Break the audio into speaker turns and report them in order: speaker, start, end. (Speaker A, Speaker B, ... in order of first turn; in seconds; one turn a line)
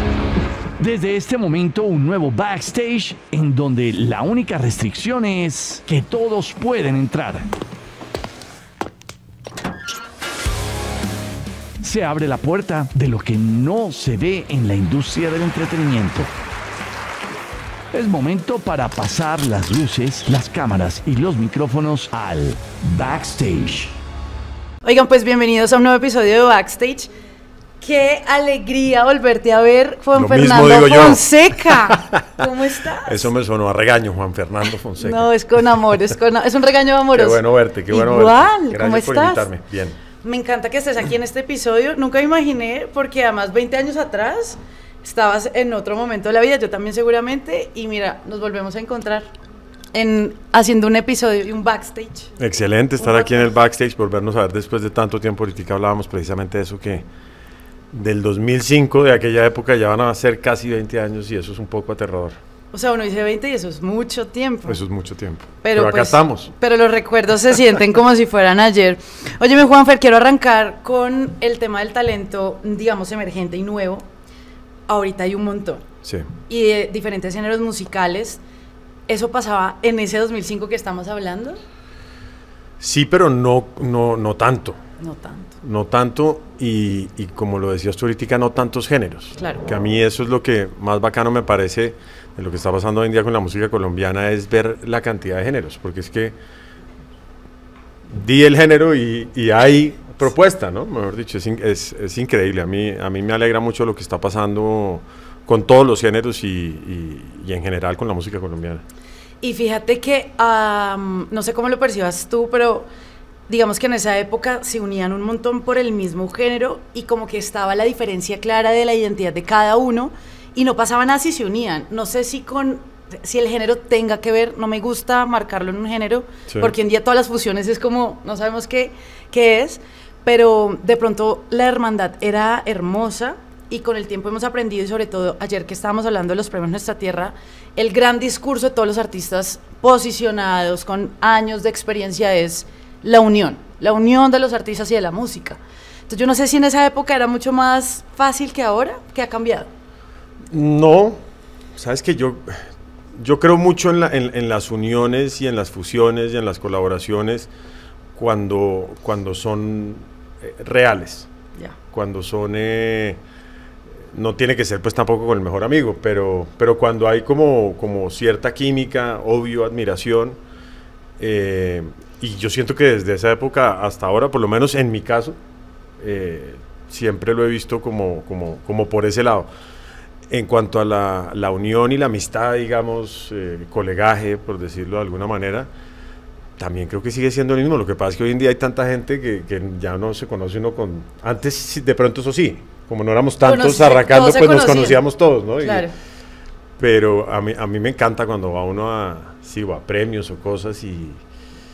Speaker A: 0.8-7.5
Speaker A: 11.8-16.3
Speaker A: 17.9-23.9
Speaker B: 24.8-27.1
Speaker B: 27.8-33.3
Speaker C: 30.1-32.3
Speaker C: 33.0-36.0
Speaker B: 35.0-39.5
Speaker C: 37.1-40.0
Speaker B: 40.2-49.3
Speaker B: 49.9-52.3
Speaker C: 52.4-57.1
Speaker B: 53.0-53.5
Speaker C: 57.9-62.4
Speaker B: 62.7-64.8
Speaker C: 64.7-66.5
Speaker B: 65.6-74.0
Speaker B: 74.9-75.9
Speaker C: 76.0-76.3
Speaker B: 76.5-78.4
Speaker B: 79.1-81.6
Speaker C: 82.8-84.8
Speaker B: 85.0-85.5
Speaker C: 85.6-96.4
Speaker B: 89.4-89.7
Speaker C: 98.1-108.8
Speaker B: 109.4-112.9
Speaker B: 113.5-149.7
Speaker C: 126.5-126.8
Speaker C: 150.5-151.2
Speaker C: 151.8-157.5
Speaker C: 158.2-161.3
Speaker C: 161.9-163.2
Speaker C: 164.1-170.4
Speaker C: 171.2-175.4
Speaker C: 176.0-179.5
Speaker C: 180.3-185.7
Speaker C: 186.6-195.9
Speaker B: 193.4-195.0
Speaker B: 195.6-195.9
Speaker C: 196.8-201.2